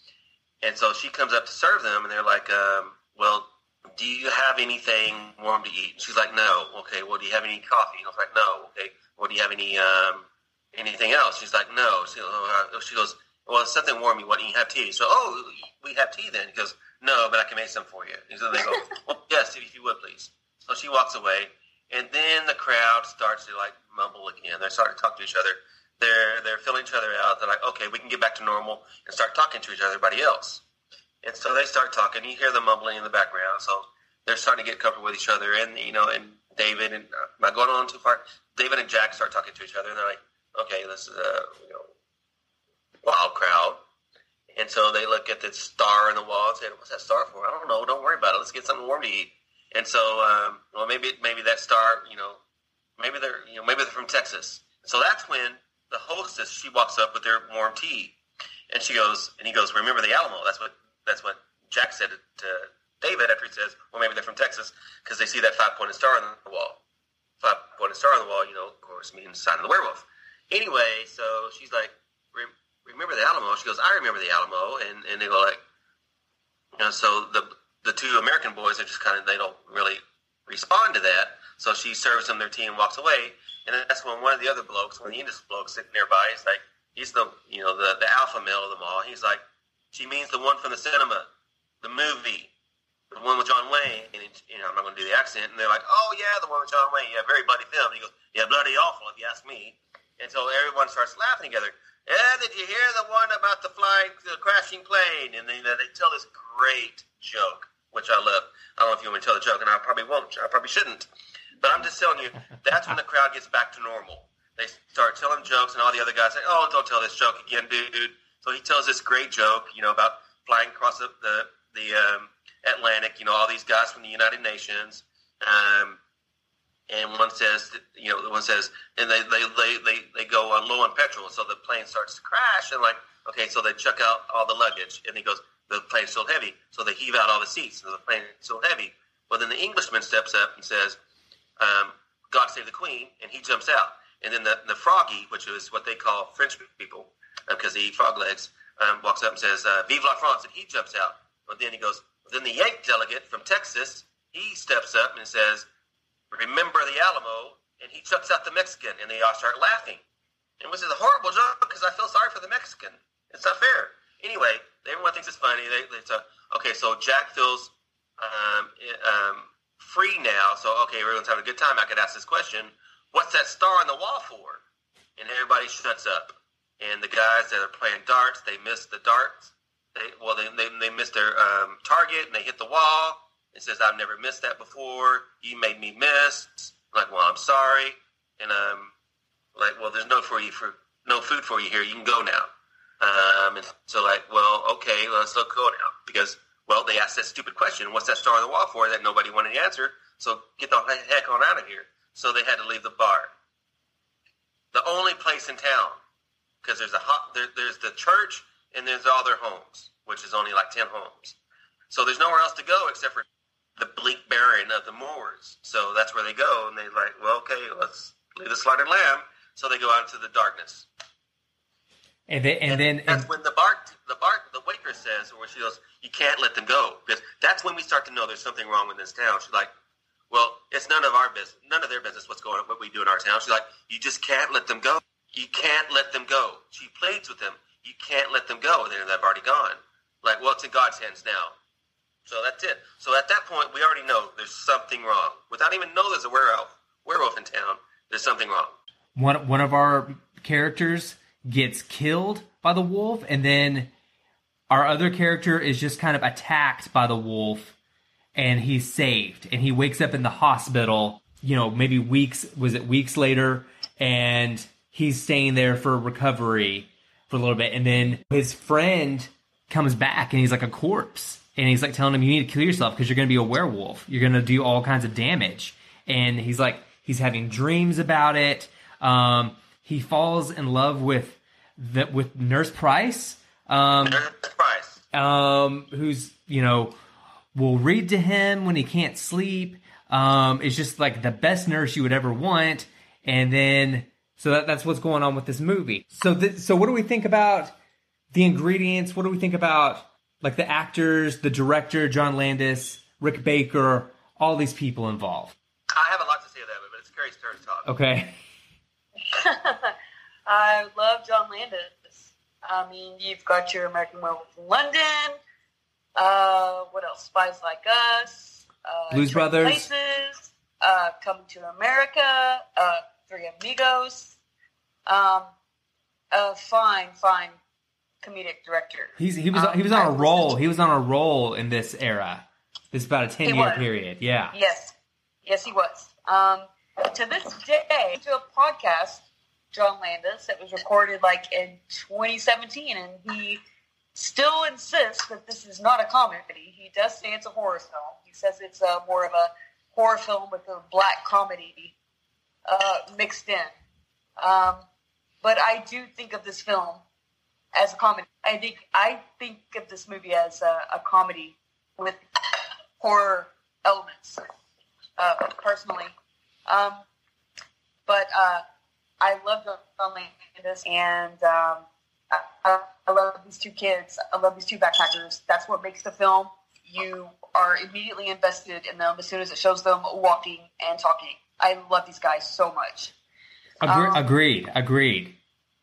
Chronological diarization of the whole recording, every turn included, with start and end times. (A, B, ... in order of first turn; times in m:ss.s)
0:00.6-0:30.6 A
0:31.2-0:41.9 A
0:43.0-0:43.8 A
0:44.6-0:52.4 A
0:53.0-0:58.2 A
0:58.7-1:06.8 A
1:07.4-1:15.6 A
1:16.8-1:31.3 A
1:31.8-1:32.5 A
1:33.1-1:51.1 A
1:51.6-2:06.0 A
2:06.9-2:21.0 A
2:21.6-2:35.7 A
2:36.3-2:40.0 A
2:40.6-2:54.6 A
2:55.2-3:08.9 A
3:09.6-3:23.3 A
3:24.7-3:26.0 A
3:26.6-3:31.4 A
3:31.9-3:33.3 A
3:33.8-3:40.9 A
3:42.3-3:43.3 B
3:42.7-3:49.7 A
3:50.3-4:01.6 A
4:02.3-4:08.8 A
4:09.2-4:13.9 B
4:14.7-4:17.8 B
4:18.4-4:44.2 B
4:44.0-4:45.0 A
4:45.1-4:46.9 B
4:47.6-4:57.7 B
4:58.3-5:05.6 B
5:05.9-5:07.9 A
5:07.8-5:08.4 B
5:09.3-5:09.9 C
5:10.5-5:15.4 C
5:16.2-5:24.4 C
5:19.1-5:19.9 B
5:25.1-5:25.5 C
5:26.3-5:27.6 C
5:28.2-5:30.5 C
5:29.2-5:34.6 B
5:33.4-5:33.9 C
5:34.5-5:34.9 C
5:35.5-5:43.6 C
5:44.2-5:51.9 C
5:52.7-5:53.7 C
5:54.4-5:54.8 C
5:55.4-5:57.0 C
5:57.7-6:02.2 C
6:03.0-6:04.4 C
6:05.2-6:06.1 C
6:06.7-6:07.0 C
6:08.1-6:08.6 C
6:09.2-6:23.1 C
6:23.8-6:25.4 B
6:23.9-6:24.2 C